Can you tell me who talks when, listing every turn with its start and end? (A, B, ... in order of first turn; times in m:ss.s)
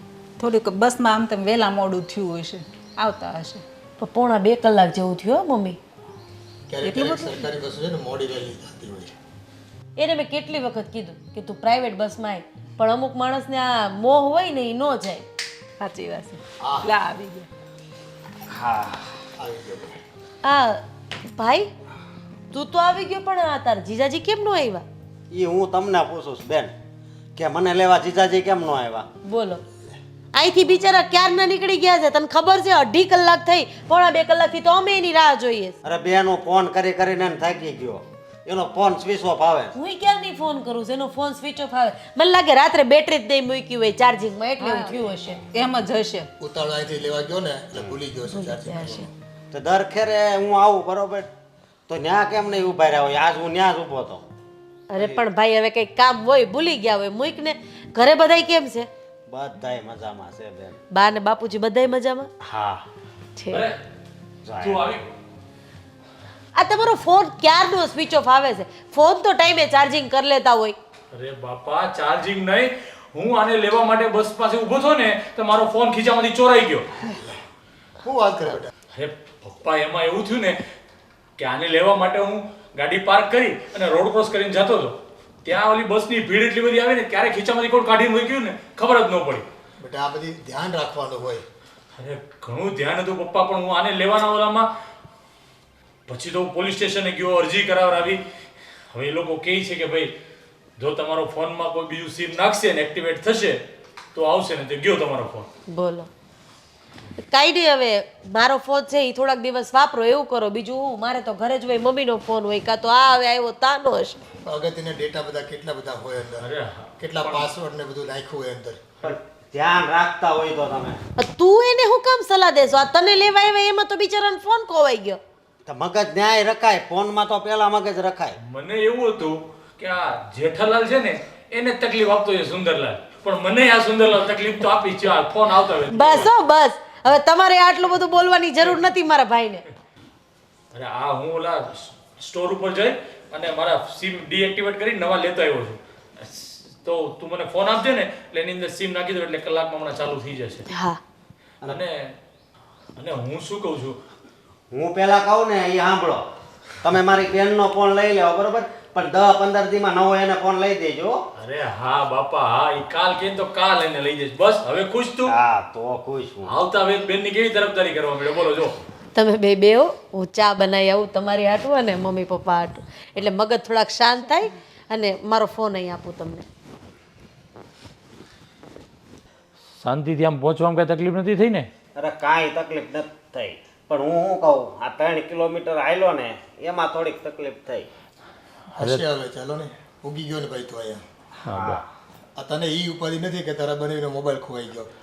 0:00.4-0:03.6 A
0:04.0-0:05.8 B
0:06.7-0:09.2 C
0:06.8-0:07.4 A
0:10.0-0:15.2 B
0:15.8-0:17.5 A
0:16.6-0:16.9 C
0:18.5-0:19.2 D
0:19.4-0:20.0 C
0:20.4-0:21.7 B
0:22.5-0:24.8 B
0:25.3-0:26.7 D
0:27.4-0:29.1 D
0:29.2-0:29.6 B
0:30.3-0:35.8 B
0:35.8-0:39.7 D
0:39.8-0:45.4 B
0:44.6-0:46.3 A
0:46.4-0:49.1 C
0:48.3-0:49.1 B
0:49.5-0:51.3 D
0:51.9-0:54.2 D
0:54.9-0:58.9 B
0:55.0-0:55.2 D
0:59.3-1:00.8 D
1:00.9-1:02.3 B
1:02.4-1:02.8 D
1:03.4-1:03.7 B
1:03.5-1:03.8 E
1:04.4-1:04.9 D
1:04.6-1:05.1 E
1:06.5-1:10.8 B
1:11.1-1:16.9 E
1:18.0-1:18.7 C
1:18.9-1:20.6 E
1:21.4-1:29.5 E
1:29.8-1:31.4 C
1:32.0-1:34.7 E
1:36.1-1:38.2 E
1:38.9-1:40.1 E
1:40.8-1:43.6 E
1:44.1-1:45.5 E
1:45.7-1:46.1 B
1:47.2-1:54.2 B
1:54.4-1:56.5 C
1:56.4-1:57.5 E
1:57.0-1:59.0 C
1:59.0-2:01.0 D
2:01.2-2:05.2 B
2:05.7-2:08.4 D
2:08.4-2:16.3 E
2:15.9-2:19.6 B
2:20.7-2:30.7 E
2:30.7-2:31.0 B
2:31.6-2:32.1 E
2:33.0-2:34.0 E
2:34.7-2:36.3 D
2:36.8-2:41.2 D
2:41.4-2:45.3 E
2:45.3-2:46.6 D
2:46.5-2:48.8 E
2:49.1-2:56.5 B
2:59.8-3:01.7 E
3:02.0-3:07.9 D
3:08.7-3:09.0 E
3:08.8-3:11.0 C
3:11.4-3:11.8 E
3:11.4-3:11.9 D
3:12.4-3:14.9 C